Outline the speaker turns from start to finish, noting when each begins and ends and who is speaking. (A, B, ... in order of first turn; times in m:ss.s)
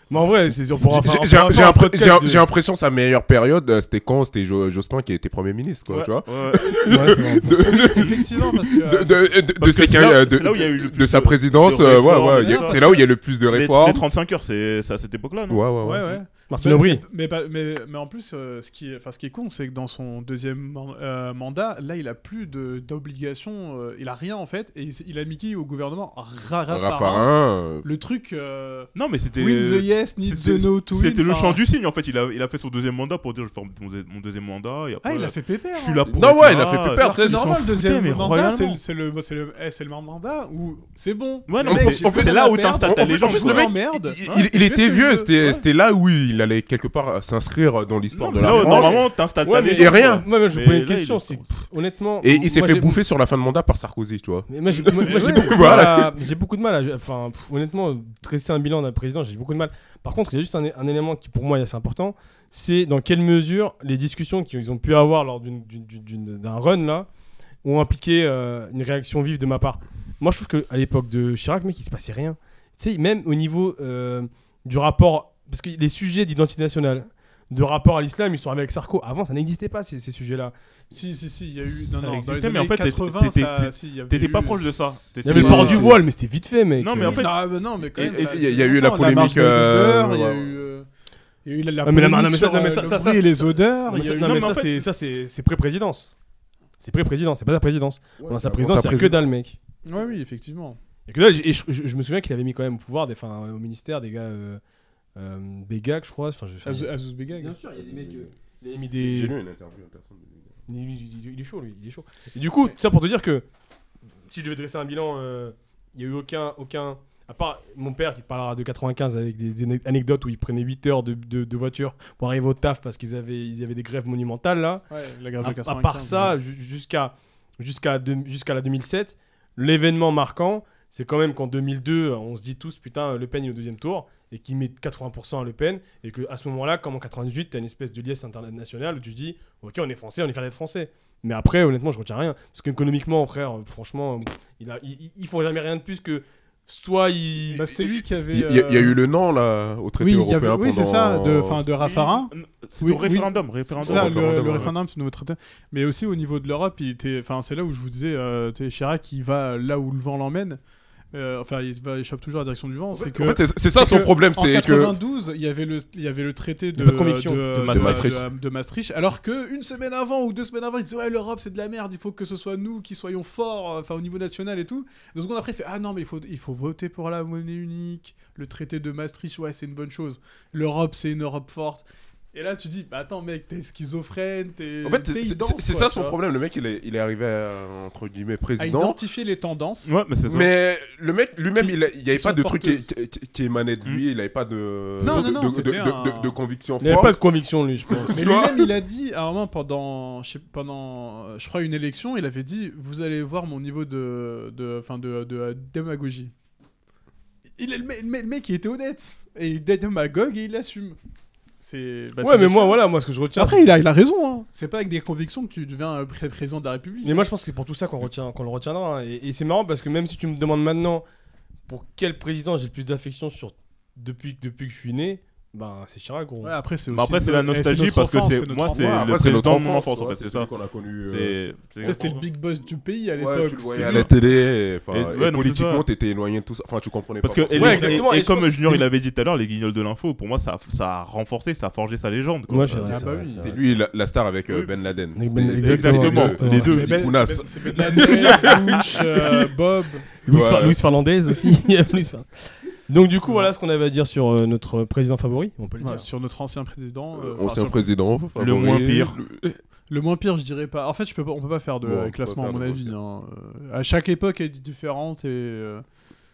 0:00.1-0:02.4 A
0:00.8-0:14.0 B
0:05.9-0:06.8 C
0:06.8-0:07.5 A
0:07.5-0:09.4 D
0:09.6-0:16.2 C
0:11.9-0:13.1 D
0:15.5-0:16.1 B
0:15.8-0:27.3 D
0:16.5-0:17.0 A
0:26.7-0:27.9 B
0:27.8-0:31.6 D
0:29.0-0:38.8 C
0:35.0-0:45.3 D
0:36.1-0:37.6 B
0:41.5-0:44.5 C
0:41.6-0:49.1 B
0:45.4-0:45.6 C
0:48.1-0:51.6 C
0:48.5-0:53.0 A
0:49.6-0:50.2 B
0:52.2-0:56.1 B
0:54.5-1:07.1 A
0:54.8-0:55.7 C
0:55.1-0:55.8 D
1:07.6-1:20.5 A
1:20.9-1:25.9 D
1:21.9-1:25.9 C
1:25.2-1:27.2 A
1:25.2-1:26.0 B
1:26.8-1:28.4 C
1:27.0-1:30.9 D
1:28.0-1:30.5 B
1:31.4-1:34.6 D
1:31.8-1:36.1 A
1:34.0-1:34.9 C
1:36.8-1:39.6 A
1:38.2-1:39.2 B
1:39.8-1:40.8 D
1:41.1-1:44.6 A
1:45.2-1:49.4 A
1:46.6-1:47.6 D
1:47.8-1:48.3 B
1:49.0-1:50.5 B
1:50.7-1:53.4 A
1:54.3-2:04.8 A
2:04.9-2:06.4 D
2:05.4-2:27.7 A
2:27.5-2:29.0 D
2:27.7-2:31.6 B
2:30.0-2:40.6 D
2:31.8-2:34.7 C
2:33.8-2:34.7 B
2:41.1-3:06.2 D
2:42.9-2:45.0 B
2:46.8-2:47.4 A
2:47.5-2:48.2 C
2:47.7-2:48.2 B
3:04.8-3:09.0 B
3:08.6-3:10.0 D
3:09.8-3:10.5 C
3:10.3-3:17.2 B
3:11.6-3:12.9 D
3:15.0-3:16.3 D
3:16.8-3:18.2 A
3:17.9-3:18.7 B
3:18.1-3:26.3 D
3:27.6-3:31.0 D
3:31.6-3:32.8 D
3:32.2-3:33.7 A
3:33.4-3:37.3 D
3:37.0-3:41.0 A
3:41.7-3:46.6 A
3:46.4-3:49.2 D
3:46.9-3:50.5 C
3:48.8-3:52.0 B
3:51.1-3:52.3 C
3:51.8-3:54.1 D
3:53.2-3:58.0 B
3:53.8-3:54.1 C
3:54.9-3:55.8 C
3:57.2-4:03.1 C
3:57.6-3:58.8 A
4:02.5-4:03.5 A
4:02.8-4:03.6 D
4:03.2-4:08.8 B
4:05.2-4:06.8 A
4:05.6-4:07.2 C
4:06.6-4:10.1 D
4:10.2-4:16.0 A
4:10.3-4:10.8 B
4:13.2-4:13.5 D
4:15.8-4:17.9 D
4:17.1-4:19.6 B
4:18.4-4:19.2 C
4:19.9-4:25.8 D
4:21.8-4:23.0 B